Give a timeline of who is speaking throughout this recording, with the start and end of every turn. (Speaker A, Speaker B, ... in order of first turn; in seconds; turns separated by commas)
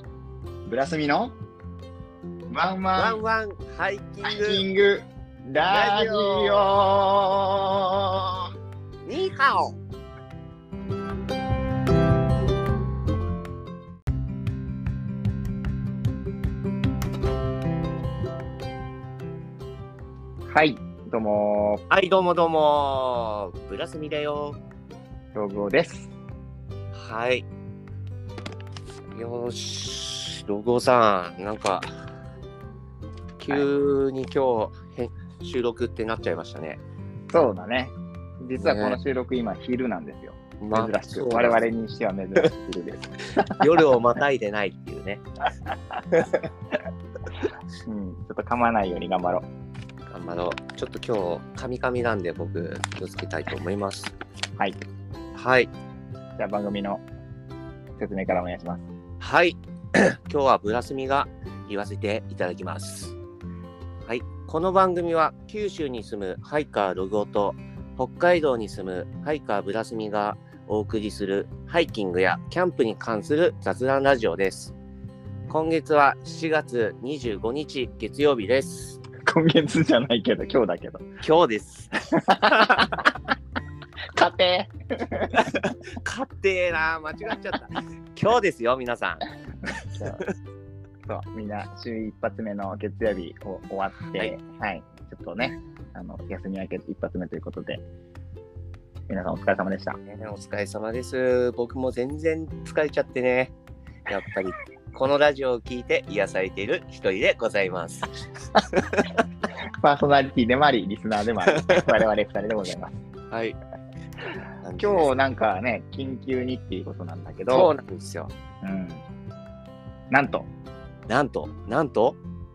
Speaker A: 0.7-1.4, Speaker A: 2.5-3.2, Speaker B: 3.0-4.6, Speaker A: 4.2-8.5, Speaker B: 5.6-6.7, Speaker B: 9.0-9.8, Speaker A: 20.4-21.8, Speaker B: 21.9-24.6, Speaker A: 25.3-26.1, Speaker B: 26.9-27.4, Speaker B: 29.1-31.9, Speaker B: 33.4-36.8, Speaker A: 37.3-43.7, Speaker B: 38.6-39.0, Speaker B: 40.6-41.6, Speaker B: 43.4-45.2, Speaker A: 47.8-49.5, Speaker B: 50.1-54.1, Speaker B: 55.3-55.7, Speaker A: 56.4-57.0, Speaker A: 58.0-58.8, Speaker B: 59.2-63.1, Speaker B: 64.0-74.7, Speaker B: 75.5-79.0, Speaker A: 79.2-81.1, Speaker B: 81.2-82.8, Speaker A: 82.1-83.1, Speaker A: 84.1-85.4, Speaker B: 85.3-89.2, Speaker A: 89.9-90.2, Speaker B: 90.0-90.3, Speaker A: 91.1-97.8, Speaker A: 99.1-100.0, Speaker B: 100.1-103.5, Speaker B: 104.1-109.1, Speaker A: 109.8-112.9, Speaker B: 111.5-111.8, Speaker B: 113.3-113.5, Speaker B: 114.6-115.1, Speaker A: 114.8-117.7, Speaker B: 117.5-118.3, Speaker A: 118.6-119.0, Speaker A: 120.1-120.5, Speaker B: 121.1-122.2